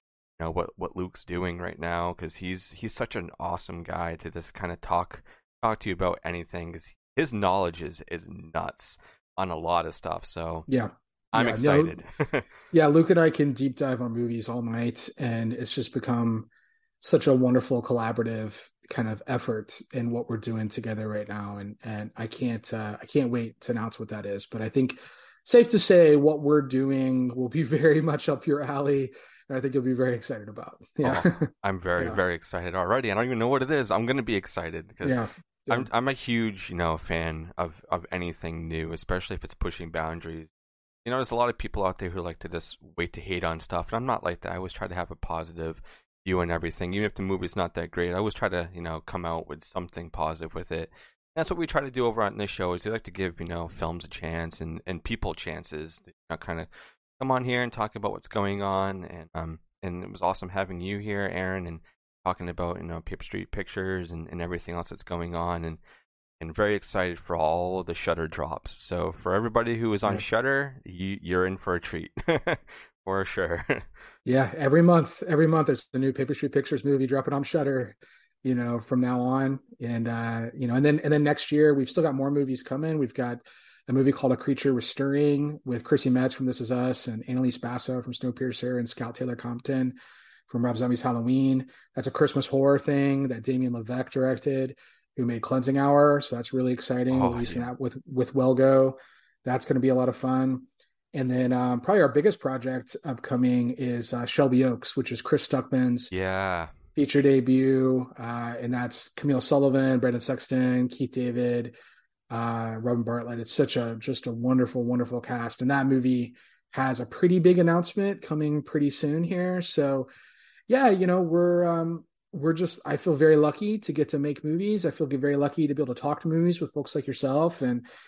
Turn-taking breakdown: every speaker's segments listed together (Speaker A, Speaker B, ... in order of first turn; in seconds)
Speaker A: 0.4-10.7, 11.3-12.5, 31.0-40.5, 41.0-65.8, 66.4-73.9, 97.1-97.7, 106.1-106.7
Speaker B: 10.7-12.0, 12.7-16.5, 17.0-32.2, 35.0-35.9, 74.2-90.0, 90.5-106.1, 107.0-111.7, 112.3-120.1, 120.7-127.9